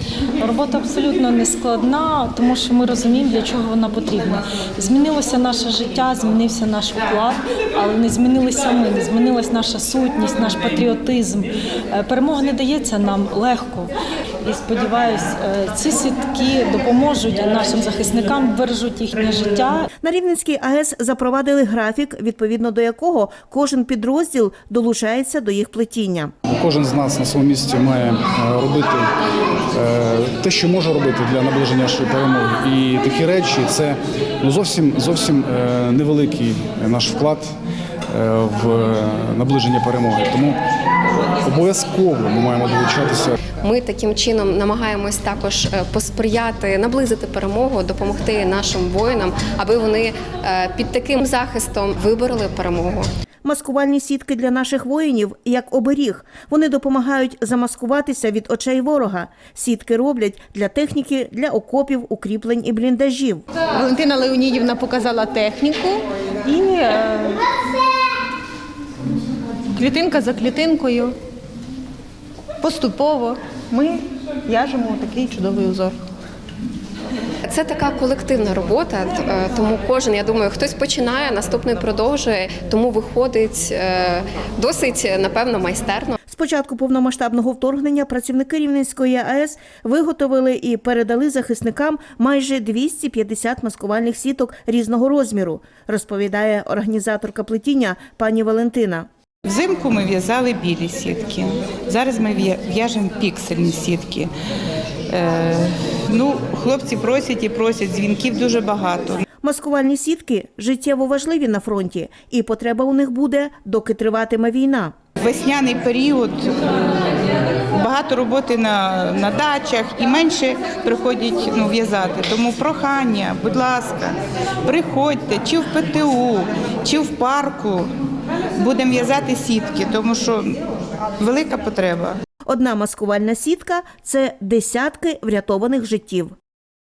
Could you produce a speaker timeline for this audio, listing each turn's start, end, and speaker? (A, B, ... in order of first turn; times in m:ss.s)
0:00.4-0:13.9 A
0:14.4-0:19.9 A
0:20.0-0:26.3 B
0:26.5-0:29.1 C
0:29.7-0:37.5 C
0:38.1-0:40.6 C
0:41.4-0:43.4 C
0:43.6-0:53.1 D
0:53.4-1:03.4 B
1:03.7-1:07.4 E
1:09.7-1:11.2 E
1:12.6-1:16.0 E
1:17.4-1:26.2 D
1:26.3-1:39.1 B
1:39.4-1:44.3 F
1:45.1-1:49.2 F
1:49.4-1:54.9 B
1:55.2-1:56.6 F
1:57.7-2:07.9 F
2:08.6-2:10.6 F
2:11.2-2:12.2 F
2:12.5-2:16.3 B